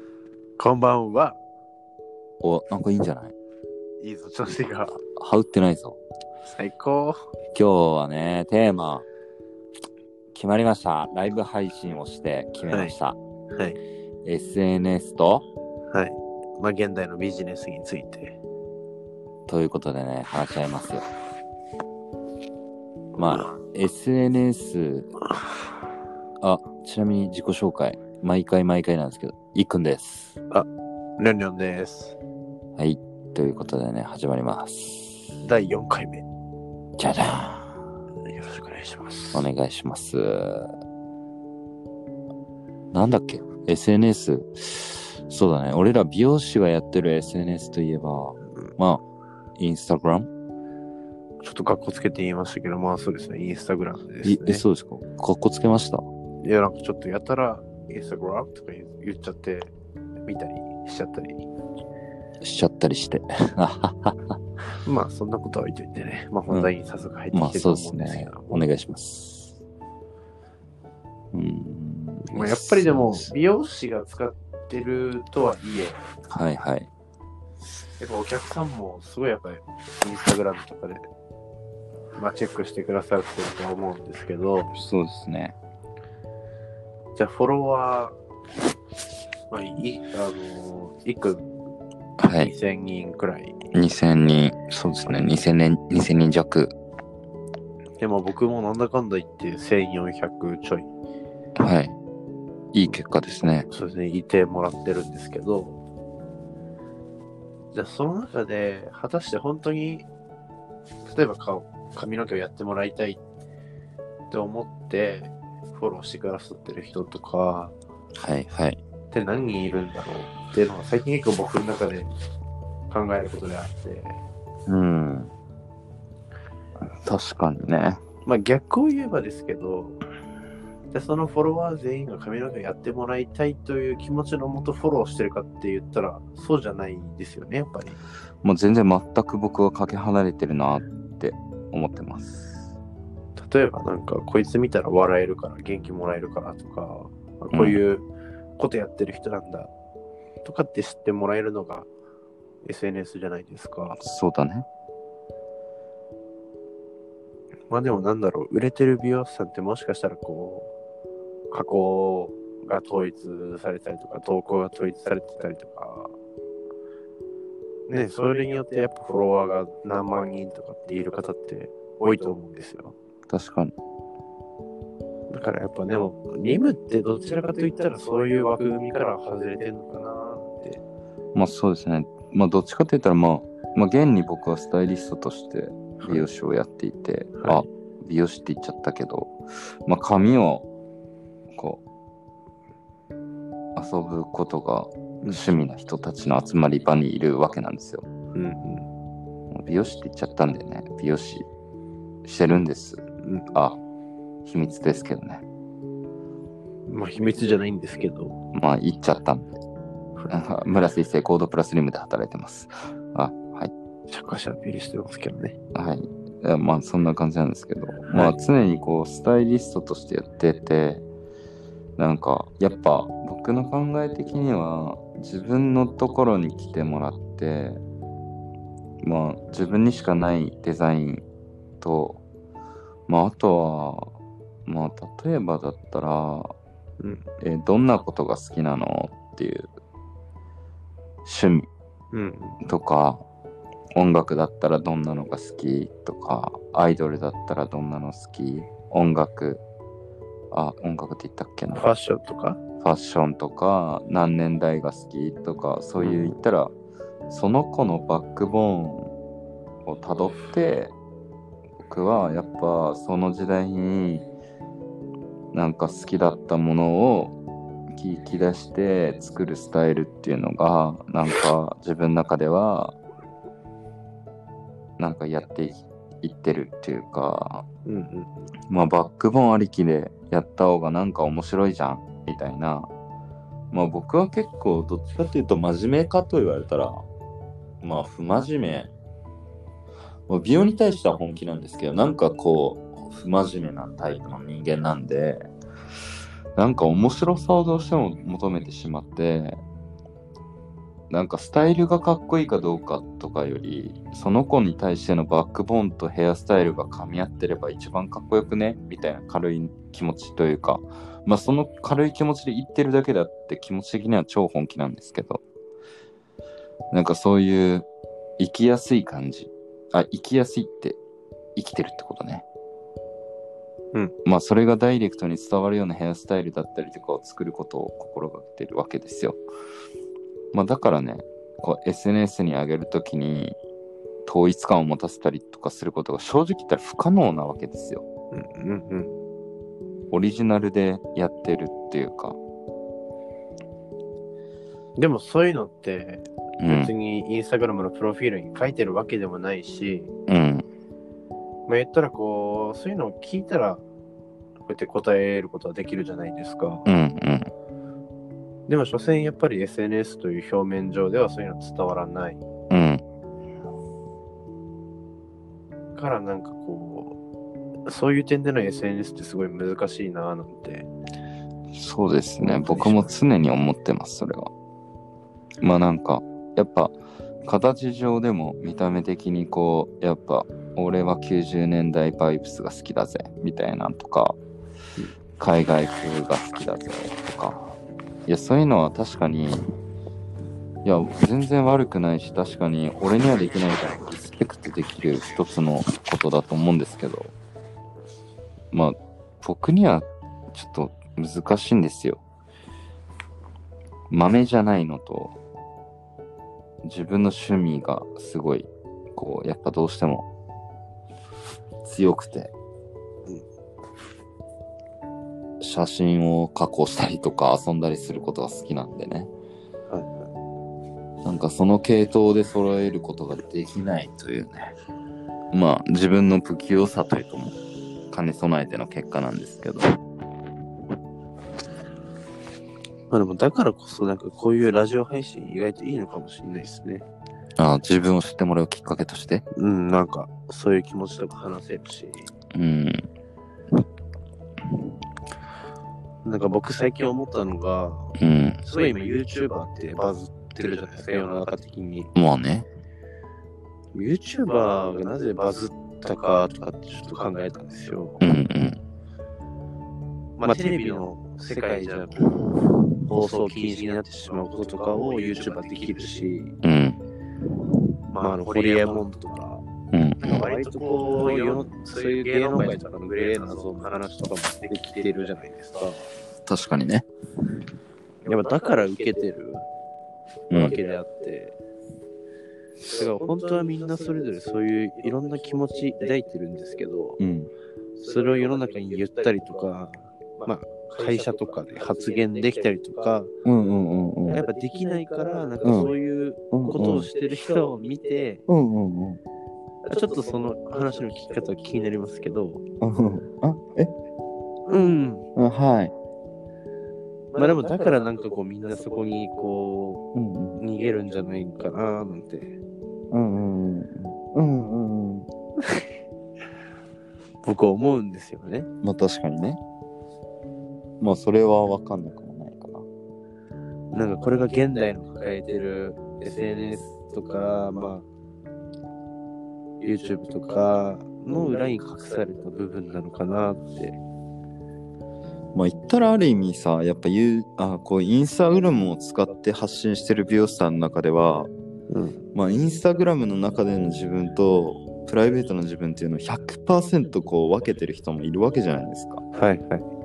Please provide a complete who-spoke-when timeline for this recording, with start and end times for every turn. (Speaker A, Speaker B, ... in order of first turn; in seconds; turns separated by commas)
Speaker A: 0.6-1.4, Speaker B: 2.4-3.4, Speaker A: 4.0-5.0, Speaker B: 5.2-6.0, Speaker A: 6.5-7.3, Speaker B: 7.5-9.1, Speaker B: 10.3-13.2, Speaker A: 13.5-13.8, Speaker B: 14.2-15.5, Speaker A: 15.9-18.4, Speaker B: 19.5-21.1, Speaker B: 23.2-25.1, Speaker B: 26.4-30.4, Speaker A: 31.2-32.2, Speaker B: 32.8-35.3, Speaker A: 35.4-36.2, Speaker B: 37.0-37.8, Speaker A: 38.3-39.5, Speaker B: 39.3-40.8, Speaker B: 42.9-49.0, Speaker B: 49.6-50.3, Speaker A: 51.4-54.6, Speaker B: 54.2-56.0, Speaker A: 56.4-59.7, Speaker A: 60.3-61.5, Speaker B: 62.4-64.4, Speaker A: 64.8-68.6, Speaker B: 67.3-69.6, Speaker B: 71.3-73.2, Speaker A: 72.3-76.0, Speaker B: 76.3-76.9, Speaker A: 78.0-81.1, Speaker A: 82.2-84.7, Speaker B: 84.7-85.5, Speaker A: 87.2-88.2, Speaker A: 89.5-91.5, Speaker B: 92.2-92.5, Speaker A: 92.3-93.6, Speaker B: 93.7-96.7, Speaker A: 95.1-95.3, Speaker A: 98.0-100.9, Speaker B: 101.6-102.0, Speaker B: 102.7-103.7, Speaker A: 103.7-105.8, Speaker A: 107.7-110.1, Speaker A: 111.0-113.2, Speaker A: 114.3-117.8, Speaker B: 118.2-118.8, Speaker A: 119.1-122.1, Speaker A: 122.9-124.2, Speaker B: 124.7-125.3, Speaker B: 127.0-128.0, Speaker A: 128.2-130.0, Speaker A: 130.9-138.0, Speaker B: 138.4-142.7, Speaker A: 143.4-148.1, Speaker B: 147.5-147.8, Speaker A: 148.6-149.7, Speaker A: 150.4-151.9, Speaker A: 152.6-154.0, Speaker B: 154.0-154.7, Speaker A: 157.7-160.7, Speaker A: 161.5-166.1, Speaker A: 167.9-172.9, Speaker B: 173.3-173.8, Speaker A: 175.3-180.8, Speaker B: 181.3-189.3, Speaker B: 189.9-190.7, Speaker B: 191.5-191.8, Speaker B: 193.8-198.1, Speaker A: 198.3-198.9, Speaker B: 199.5-201.5, Speaker B: 202.2-203.8, Speaker A: 203.2-203.5, Speaker B: 204.5-205.4, Speaker A: 206.9-208.4, Speaker B: 208.5-209.5, Speaker B: 210.3-213.7, Speaker A: 214.1-215.6, Speaker B: 215.7-221.1, Speaker B: 222.0-227.8, Speaker B: 229.0-231.2, Speaker B: 231.8-232.2, Speaker B: 233.1-236.5, Speaker A: 237.0-237.2, Speaker B: 237.4-239.7, Speaker B: 241.2-241.7, Speaker A: 242.1-242.6, Speaker B: 242.6-243.2, Speaker B: 244.0-249.6, Speaker B: 250.5-251.8, Speaker A: 251.7-252.6, Speaker B: 252.8-256.7, Speaker A: 256.0-256.3, Speaker B: 257.3-259.1, Speaker B: 259.9-260.9, Speaker B: 261.9-264.3, Speaker B: 265.5-267.4, Speaker B: 267.9-273.0, Speaker B: 275.0-277.6, Speaker A: 277.9-278.5, Speaker B: 278.7-282.9, Speaker B: 283.7-287.0, Speaker B: 287.8-288.9, Speaker B: 290.3-295.4, Speaker B: 296.6-299.6, Speaker B: 301.1-315.4, Speaker B: 316.9-317.9, Speaker B: 318.4-321.0, Speaker B: 321.6-322.4, Speaker B: 324.2-329.4, Speaker B: 330.5-333.6, Speaker B: 334.2-338.1, Speaker A: 338.3-339.1, Speaker B: 340.1-342.4, Speaker A: 345.0-350.1, Speaker B: 346.6-346.9, Speaker B: 350.3-350.7, Speaker A: 351.7-353.8, Speaker A: 354.7-356.9, Speaker B: 356.9-357.5, Speaker A: 358.7-362.4, Speaker B: 362.7-363.0, Speaker A: 366.0-367.2, Speaker A: 367.9-370.9, Speaker B: 371.7-374.5, Speaker A: 372.4-373.1, Speaker B: 375.6-384.4, Speaker B: 385.4-387.8, Speaker B: 388.3-389.7, Speaker B: 390.8-397.3, Speaker B: 398.7-402.2, Speaker B: 404.1-405.4, Speaker B: 406.8-410.3, Speaker B: 411.8-412.5, Speaker B: 415.6-419.3, Speaker A: 419.9-420.2, Speaker B: 421.2-424.8, Speaker B: 425.5-427.6, Speaker B: 428.1-430.0, Speaker A: 433.1-437.1, Speaker B: 437.6-439.4, Speaker A: 439.6-442.3, Speaker B: 442.5-443.1, Speaker A: 446.2-452.1, Speaker B: 448.2-448.6, Speaker B: 452.1-452.7, Speaker A: 453.9-458.2, Speaker B: 458.2-458.8, Speaker A: 460.4-466.6, Speaker B: 466.6-467.0, Speaker A: 468.1-469.6, Speaker B: 469.9-470.3, Speaker A: 470.2-476.1, Speaker B: 476.5-477.1, Speaker A: 478.2-479.7, Speaker B: 480.5-480.8, Speaker A: 480.5-481.6, Speaker A: 482.8-487.2, Speaker B: 487.2-487.5, Speaker A: 488.0-493.3, Speaker B: 493.4-494.4, Speaker A: 494.3-498.4, Speaker B: 496.5-497.1, Speaker B: 498.5-499.2, Speaker A: 499.8-502.6, Speaker B: 502.8-503.9, Speaker A: 504.7-505.3, Speaker B: 505.4-505.9, Speaker A: 507.3-510.0, Speaker B: 510.1-510.6, Speaker A: 510.6-512.6, Speaker B: 513.1-515.3, Speaker A: 517.4-518.7, Speaker B: 518.8-519.6, Speaker B: 521.0-522.9, Speaker A: 523.9-528.1, Speaker A: 529.8-534.0, Speaker B: 535.5-541.5, Speaker A: 541.9-542.2, Speaker B: 542.3-549.2, Speaker A: 549.3-549.9